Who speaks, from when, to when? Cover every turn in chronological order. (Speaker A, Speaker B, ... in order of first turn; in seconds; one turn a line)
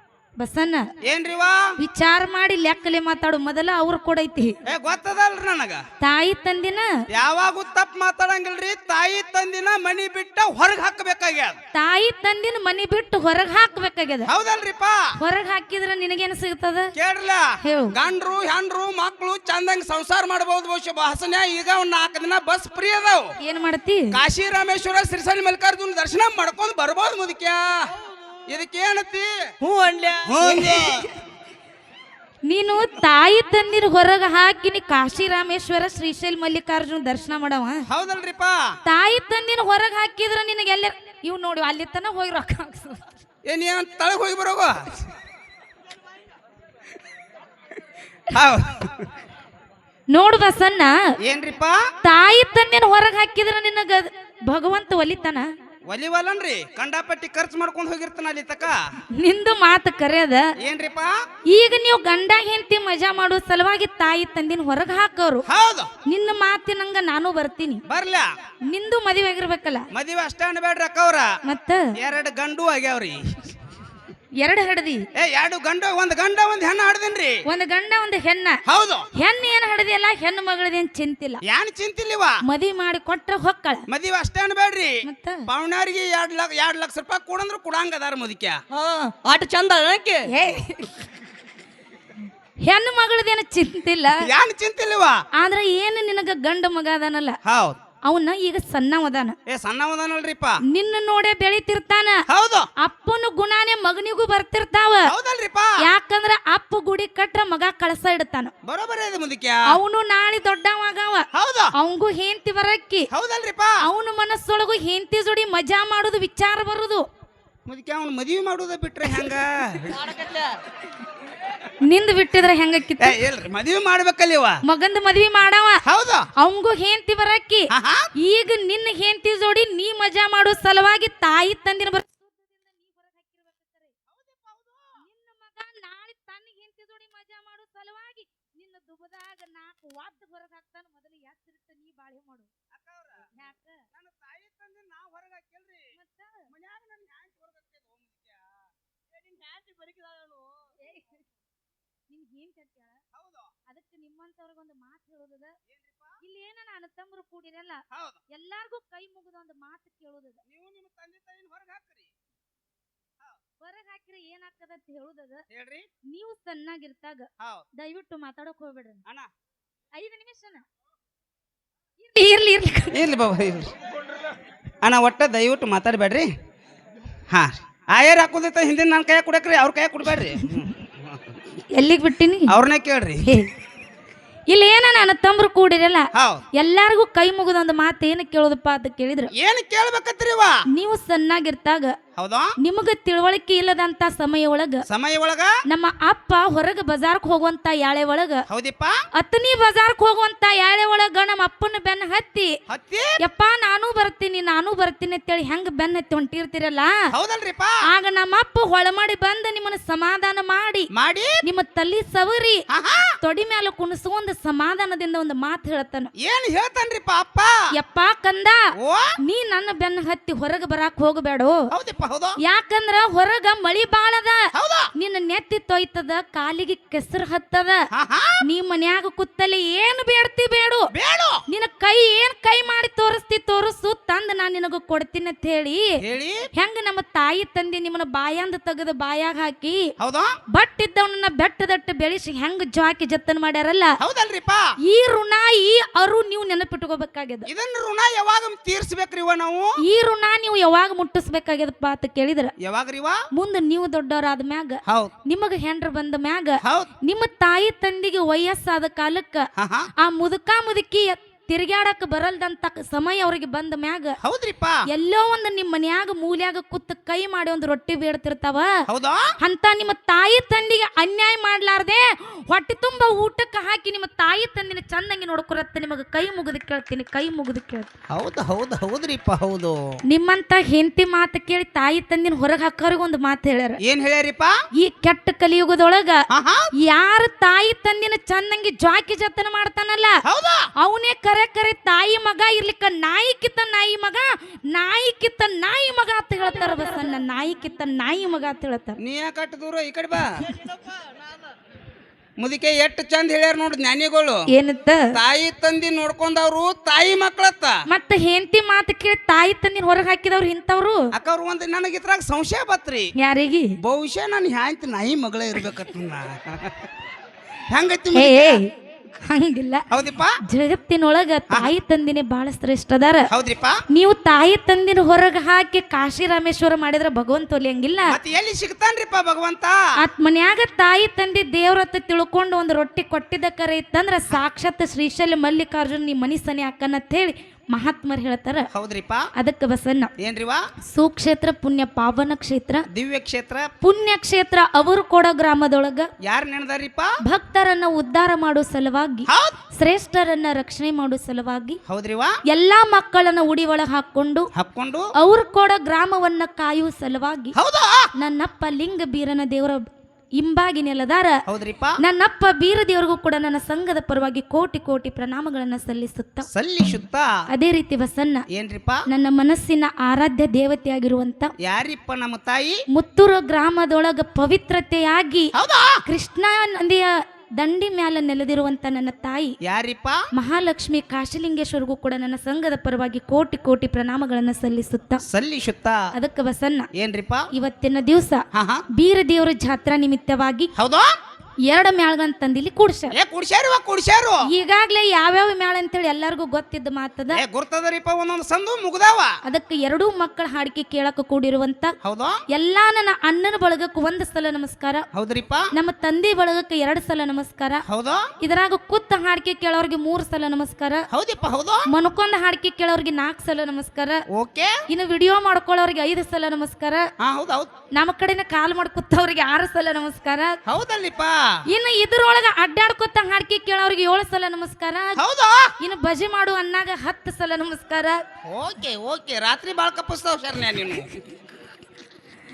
Speaker A: 0.4-0.9
Speaker B: 1.0-1.6
Speaker A: 1.8-4.5
Speaker B: 4.7-5.8
Speaker A: 6.0-6.9
Speaker B: 7.1-11.6
Speaker A: 11.7-14.3
Speaker B: 14.3-15.0
Speaker A: 15.2-16.9
Speaker B: 17.0-23.3
Speaker A: 17.6-17.9
Speaker A: 23.4-24.1
Speaker B: 24.1-27.7
Speaker B: 28.5-29.3
Speaker C: 29.6-31.1
Speaker B: 30.2-31.1
Speaker A: 32.5-37.8
Speaker B: 37.9-38.6
Speaker A: 38.9-43.0
Speaker B: 43.5-44.8
Speaker B: 48.3-49.0
Speaker A: 50.1-51.0
Speaker B: 51.2-51.8
Speaker A: 52.0-55.5
Speaker B: 55.9-58.8
Speaker A: 59.1-60.5
Speaker B: 60.6-61.1
Speaker A: 61.5-65.4
Speaker B: 65.5-65.9
Speaker A: 66.0-67.8
Speaker B: 67.9-68.3
Speaker A: 68.7-69.9
Speaker B: 69.9-71.3
Speaker A: 71.5-71.9
Speaker B: 72.0-73.2
Speaker A: 74.4-75.0
Speaker B: 75.1-77.3
Speaker A: 77.5-78.6
Speaker B: 78.7-79.1
Speaker A: 79.1-81.4
Speaker B: 81.5-82.4
Speaker A: 82.4-83.8
Speaker B: 83.9-84.9
Speaker A: 85.0-85.4
Speaker B: 85.5-88.6
Speaker C: 88.7-90.3
Speaker A: 90.3-90.9
Speaker A: 92.6-94.2
Speaker B: 94.2-95.2
Speaker A: 95.3-97.4
Speaker B: 97.5-97.8
Speaker A: 98.0-99.3
Speaker B: 99.5-100.6
Speaker A: 100.7-102.2
Speaker B: 102.3-102.7
Speaker A: 102.8-105.1
Speaker B: 105.1-105.7
Speaker A: 105.8-108.5
Speaker B: 108.7-109.6
Speaker A: 109.7-113.1
Speaker B: 111.3-111.7
Speaker B: 113.1-113.8
Speaker A: 113.8-117.0
Speaker B: 117.7-120.1
Speaker A: 121.8-123.2
Speaker B: 123.0-124.6
Speaker A: 124.6-125.8
Speaker B: 125.8-126.3
Speaker A: 126.4-127.7
Speaker B: 127.7-128.1
Speaker A: 128.2-133.9
Speaker B: 134.1-135.0
Speaker A: 135.0-142.5
Speaker B: 142.7-143.2
Speaker A: 143.3-143.8
Speaker B: 143.9-145.9
Speaker A: 145.9-146.5
Speaker B: 146.5-148.4
Speaker B: 149.4-150.2
Speaker A: 150.8-151.2
Speaker A: 152.1-153.0
Speaker B: 153.1-153.5
Speaker A: 153.7-155.5
Speaker B: 155.7-156.2
Speaker A: 156.2-160.4
Speaker B: 157.9-158.2
Speaker B: 160.4-162.1
Speaker A: 163.6-165.4
Speaker B: 165.5-165.9
Speaker A: 166.1-169.0
Speaker A: 169.9-170.6
Speaker A: 172.0-172.9
Speaker B: 172.9-173.7
Speaker B: 174.8-176.3
Speaker B: 177.3-180.9
Speaker A: 181.7-182.5
Speaker B: 182.5-183.2
Speaker A: 184.5-189.3
Speaker B: 186.1-186.4
Speaker B: 189.4-190.5
Speaker A: 190.7-191.9
Speaker B: 192.2-192.5
Speaker A: 192.6-194.8
Speaker B: 194.9-195.5
Speaker A: 195.7-198.4
Speaker B: 198.5-198.9
Speaker A: 199.2-202.5
Speaker B: 202.7-203.2
Speaker A: 203.2-206.9
Speaker B: 207.1-207.8
Speaker A: 207.9-210.9
Speaker B: 210.9-211.4
Speaker A: 211.4-212.6
Speaker B: 212.7-213.1
Speaker A: 213.2-216.1
Speaker B: 216.2-217.5
Speaker A: 217.7-218.6
Speaker B: 218.8-219.0
Speaker A: 219.2-221.6
Speaker B: 221.7-222.3
Speaker A: 222.4-227.8
Speaker B: 224.5-224.9
Speaker B: 227.9-228.3
Speaker A: 228.4-230.9
Speaker B: 230.9-231.4
Speaker A: 231.5-235.9
Speaker B: 236.0-236.4
Speaker A: 236.5-239.9
Speaker B: 240.0-240.3
Speaker A: 240.5-243.9
Speaker B: 244.0-244.7
Speaker A: 244.8-247.5
Speaker B: 247.5-249.7
Speaker A: 249.8-252.5
Speaker B: 252.6-253.2
Speaker A: 253.3-259.5
Speaker B: 254.9-255.1
Speaker B: 256.6-256.9
Speaker B: 259.6-259.9
Speaker A: 260.0-264.1
Speaker B: 264.2-264.8
Speaker A: 264.9-268.7
Speaker B: 268.9-269.2
Speaker A: 269.4-277.9
Speaker B: 278.1-279.8
Speaker A: 280.1-283.8
Speaker B: 283.8-284.5
Speaker A: 284.8-286.2
Speaker B: 286.3-286.7
Speaker A: 286.8-290.2
Speaker B: 290.2-290.6
Speaker A: 290.8-299.0
Speaker B: 299.0-300.3
Speaker B: 302.4-304.4
Speaker A: 304.5-305.1
Speaker B: 305.1-307.7
Speaker A: 307.9-311.1
Speaker B: 311.1-313.1
Speaker A: 313.2-313.7
Speaker B: 313.8-316.8
Speaker B: 317.7-318.6
Speaker A: 318.1-318.7
Speaker A: 319.2-319.8
Speaker B: 319.9-320.3
Speaker A: 320.4-323.3
Speaker B: 323.3-323.8
Speaker A: 323.9-328.1
Speaker B: 328.1-329.8
Speaker A: 330.0-338.7
Speaker B: 338.7-339.2
Speaker A: 339.4-340.1
Speaker B: 340.2-340.6
Speaker A: 340.9-342.8
Speaker B: 342.9-343.7
Speaker A: 343.8-346.1
Speaker B: 346.2-347.1
Speaker A: 347.2-351.8
Speaker B: 349.3-349.6
Speaker B: 351.9-352.3
Speaker A: 352.5-354.5
Speaker B: 354.5-355.1
Speaker A: 355.2-357.5
Speaker B: 357.6-358.1
Speaker A: 358.1-359.9
Speaker A: 360.4-361.4
Speaker B: 361.5-361.9
Speaker A: 362.0-366.4
Speaker B: 366.5-367.3
Speaker A: 367.5-368.4
Speaker B: 368.5-369.0
Speaker A: 369.1-371.5
Speaker B: 371.6-372.8
Speaker A: 372.9-375.5
Speaker B: 375.6-376.0
Speaker A: 376.1-379.6
Speaker B: 379.6-380.2
Speaker A: 380.3-385.2
Speaker B: 385.3-386.0
Speaker A: 386.1-386.9
Speaker B: 387.0-387.4
Speaker A: 387.5-390.7
Speaker B: 388.5-388.8
Speaker B: 390.8-391.1
Speaker A: 391.7-393.1
Speaker B: 393.1-394.4
Speaker A: 394.5-397.4
Speaker B: 397.3-399.3
Speaker A: 399.4-401.9
Speaker B: 402.0-402.4
Speaker A: 402.5-405.0
Speaker B: 405.1-405.7
Speaker A: 405.7-407.8
Speaker B: 407.9-408.2
Speaker A: 408.4-411.0
Speaker B: 411.1-411.8
Speaker A: 411.9-414.2
Speaker B: 414.3-414.7
Speaker A: 414.9-417.0
Speaker B: 417.2-417.7
Speaker A: 417.9-420.6
Speaker B: 420.7-421.4
Speaker A: 421.7-425.2
Speaker B: 425.2-425.7
Speaker A: 425.8-428.2
Speaker B: 428.4-431.1